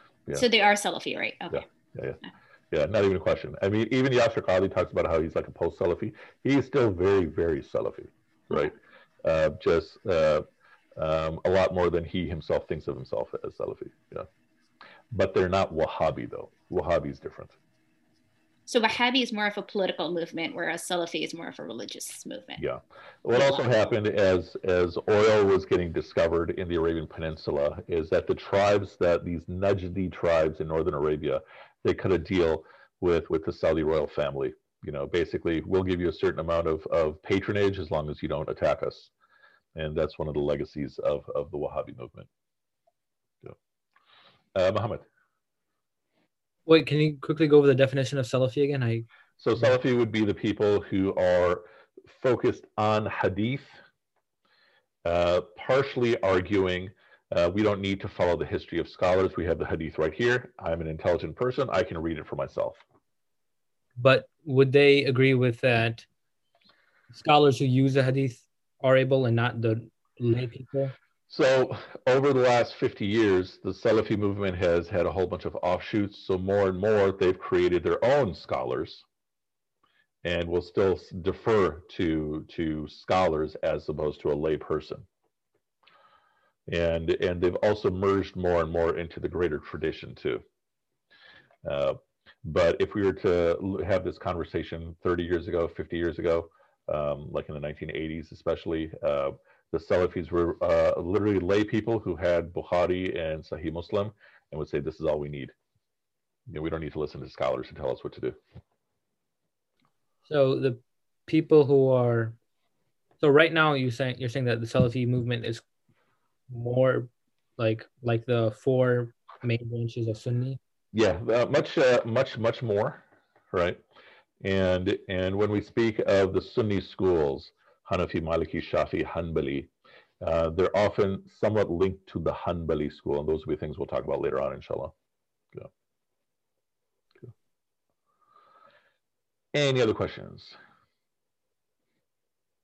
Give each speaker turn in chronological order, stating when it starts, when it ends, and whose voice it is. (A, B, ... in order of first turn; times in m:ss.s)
0:00.3-0:01.6 A
0:01.5-0:10.4 B
0:11.0-0:14.3 B
0:15.1-0:17.6 B
0:18.7-0:22.6 A
0:22.6-0:39.1 B
0:23.3-0:23.6 A
0:39.8-0:42.3 B
0:44.5-0:45.0 B
0:46.6-0:49.0 C
0:49.4-0:53.8 B
0:55.0-1:02.8 B
1:04.0-1:06.0 C
1:07.1-1:10.9 C
1:11.3-1:19.0 B
1:20.2-1:25.0 B
1:26.7-1:30.4 B
1:31.6-1:45.5 B
1:46.5-1:48.4 B
1:50.2-1:52.4 C
1:53.2-1:55.6 C
1:56.5-2:00.6 C
2:00.9-2:03.8 B
2:04.4-2:09.7 B
2:10.2-2:14.9 B
2:19.5-2:20.6 B